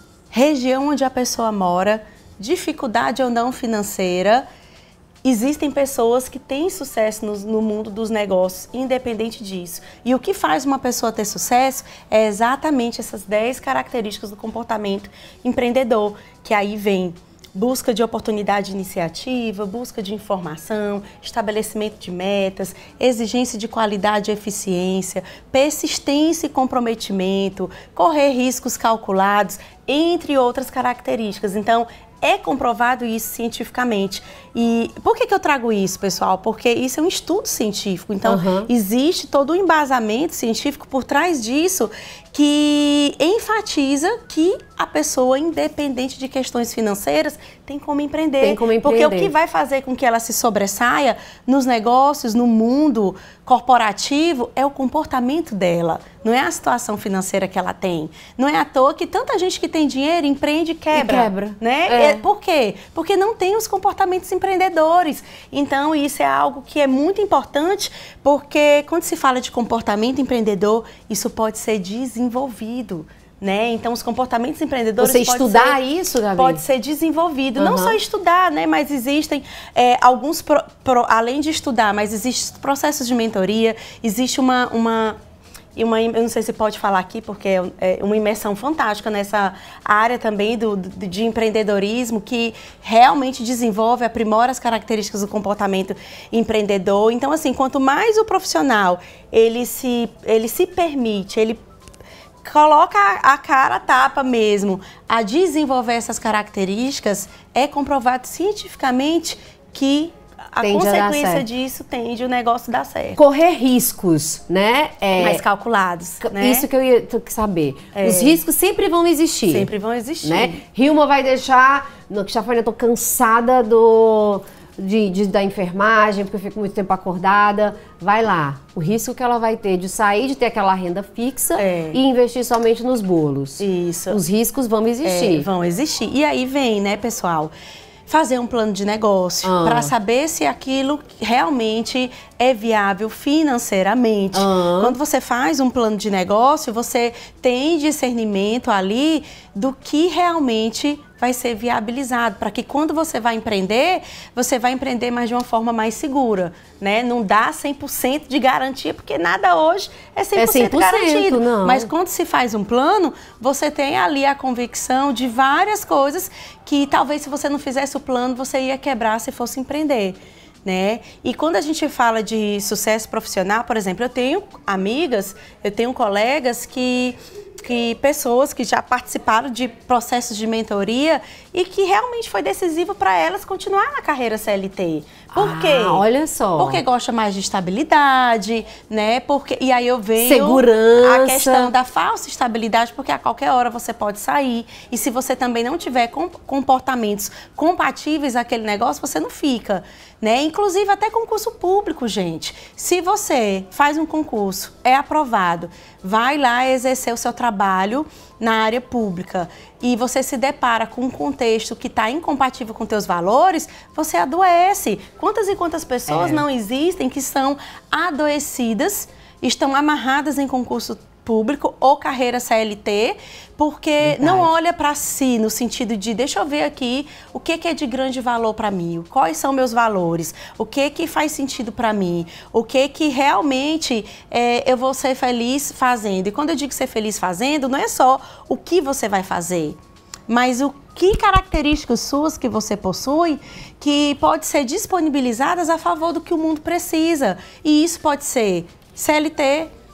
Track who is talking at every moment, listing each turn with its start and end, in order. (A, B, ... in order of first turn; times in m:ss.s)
0:00.3-0:04.4 A
0:05.2-1:15.8 A
0:38.2-0:38.7 B
0:48.4-0:49.3 B
1:00.9-1:02.2 B
1:15.0-1:16.6 B
1:16.4-1:25.2 A
1:17.6-1:18.0 B
1:25.8-1:41.6 A
1:42.4-1:53.2 A
1:50.6-1:51.4 B
1:53.2-1:55.4 B
1:55.2-1:56.7 A
1:56.2-1:59.7 B
1:58.0-1:58.4 A
1:59.5-2:00.6 A
2:00.2-2:15.5 B
2:11.6-2:12.0 A
2:13.6-2:14.2 A
2:15.0-2:17.5 A
2:18.1-3:06.0 A
2:19.4-2:19.9 B
2:24.3-2:25.0 B
2:40.4-2:41.9 B
3:05.3-3:06.8 B
3:06.6-3:59.8 A
3:10.2-3:11.7 B
3:36.1-3:36.4 B
3:44.0-3:44.5 B
4:00.3-4:09.7 A